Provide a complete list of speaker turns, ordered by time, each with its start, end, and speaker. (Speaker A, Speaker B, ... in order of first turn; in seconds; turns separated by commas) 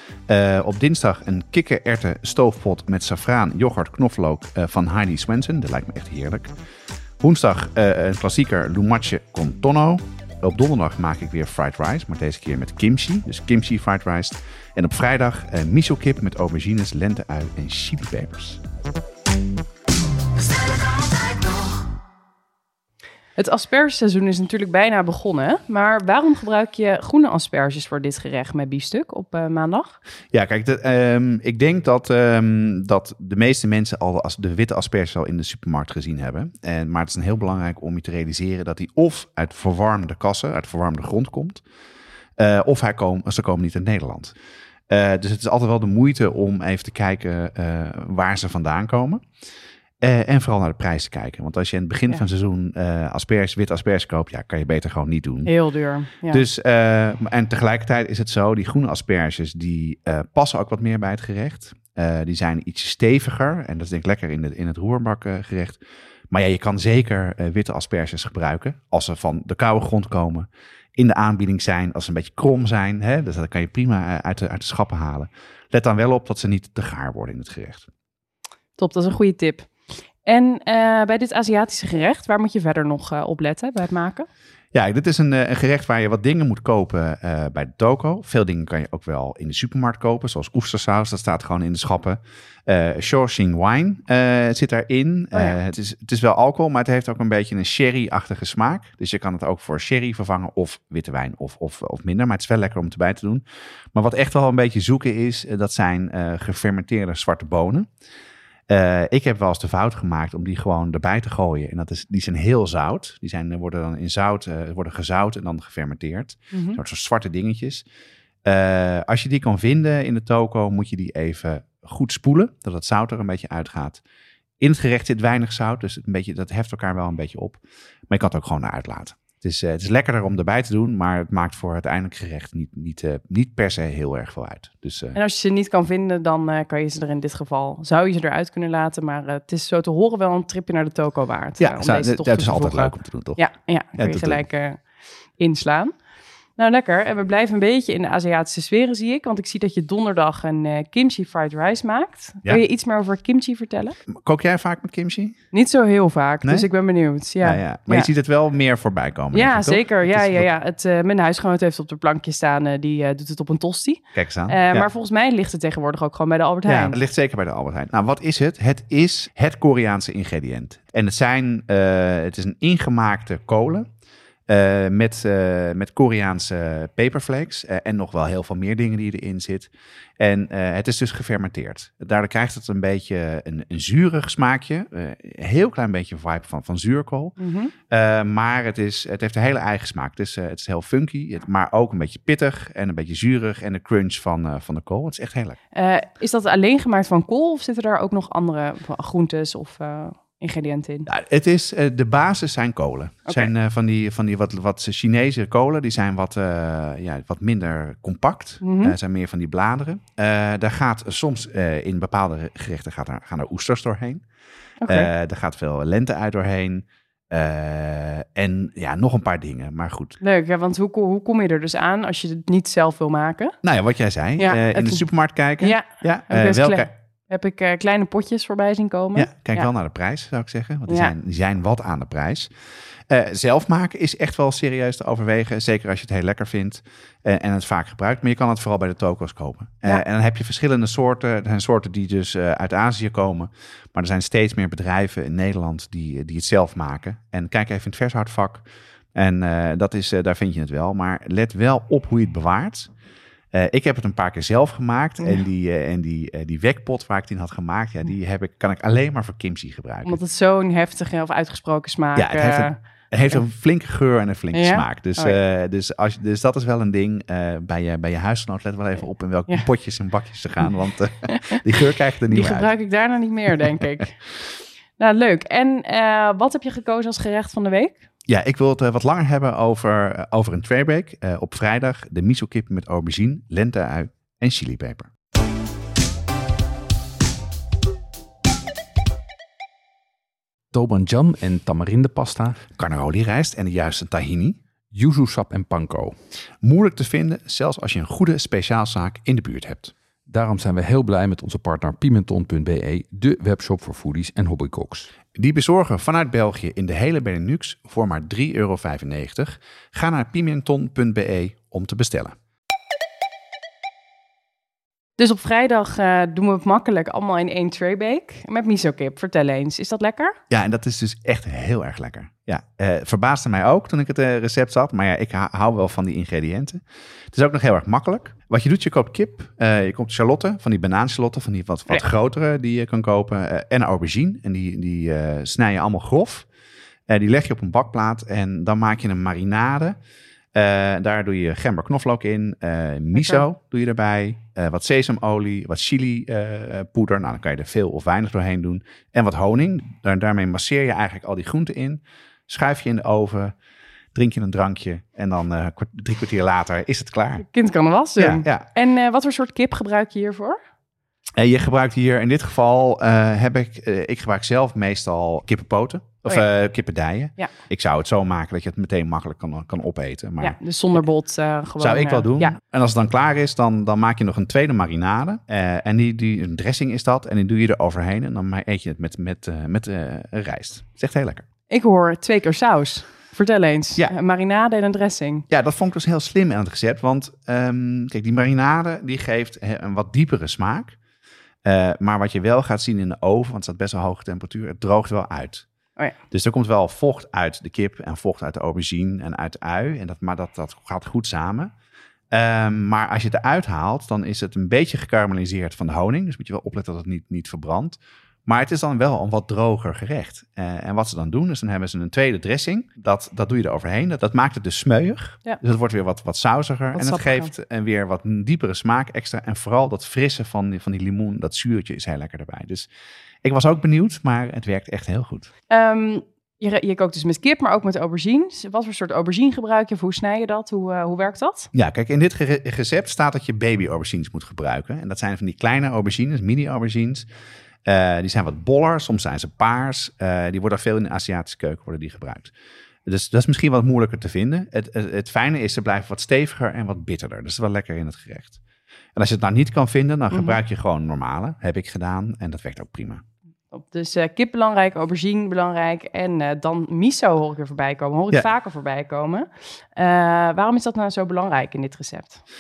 Speaker A: 0.3-6.5, Speaker A: 7.2-18.6, Speaker B: 23.4-30.0, Speaker A: 30.3-41.6, Speaker A: 42.4-44.3, Speaker A: 44.9-49.2, Speaker A: 50.0-55.5, Speaker B: 55.5-56.4, Speaker A: 56.3-77.9, Speaker B: 78.8-79.7, Speaker B: 80.2-84.3, Speaker A: 84.7-103.4, Speaker A: 103.9-107.9, Speaker A: 108.7-117.8, Speaker B: 116.5-116.8, Speaker A: 118.4-124.0, Speaker A: 124.6-135.2, Speaker B: 135.2-144.8, Speaker A: 141.6-143.4, Speaker A: 144.0-144.4, Speaker B: 145.4-145.9, Speaker B: 146.6-154.0, Speaker A: 154.2-155.4, Speaker B: 155.5-158.1, Speaker A: 156.4-156.7, Speaker A: 157.4-160.5, Speaker B: 159.3-167.0, Speaker A: 164.1-164.9, Speaker A: 166.7-173.9, Speaker A: 174.5-187.4, Speaker B: 187.4-187.7, Speaker A: 187.9-195.6, Speaker B: 195.7-201.1, Speaker A: 201.1-214.2, Speaker B: 208.6-209.0, Speaker B: 214.8-215.1, Speaker A: 214.9-220.2, Speaker B: 220.2-223.5, Speaker A: 223.6-226.9, Speaker B: 224.4-225.1, Speaker B: 225.6-229.7, Speaker A: 229.2-232.5, Speaker B: 230.9-231.1, Speaker A: 233.1-252.9, Speaker A: 253.5-260.2, Speaker B: 260.1-263.4, Speaker A: 262.2-272.7, Speaker B: 264.5-265.4, Speaker B: 271.3-271.6, Speaker B: 272.3-274.2, Speaker B: 275.0-278.0, Speaker A: 278.3-285.1, Speaker C: 290.7-292.6, Speaker A: 292.8-294.6, Speaker C: 294.9-296.2, Speaker A: 296.6-299.9, Speaker C: 300.3-305.1, Speaker A: 305.4-312.3, Speaker B: 315.2-320.4, Speaker A: 320.5-326.8, Speaker A: 327.3-336.5, Speaker A: 337.1-340.0, Speaker A: 340.6-353.5, Speaker B: 343.1-343.4, Speaker A: 354.1-357.5, Speaker B: 357.4-360.6, Speaker A: 358.2-358.7, Speaker A: 361.4-371.0, Speaker B: 370.4-372.6, Speaker A: 371.8-381.4, Speaker B: 381.7-385.4, Speaker A: 385.5-391.0, Speaker A: 391.6-395.7, Speaker A: 396.3-401.7, Speaker A: 402.3-422.9, Speaker B: 416.9-417.5, Speaker A: 423.4-425.5, Speaker B: 425.7-431.7, Speaker A: 431.7-437.3, Speaker A: 437.9-442.5, Speaker A: 443.1-448.6, Speaker A: 449.2-453.2, Speaker B: 450.3-450.6, Speaker B: 453.7-462.4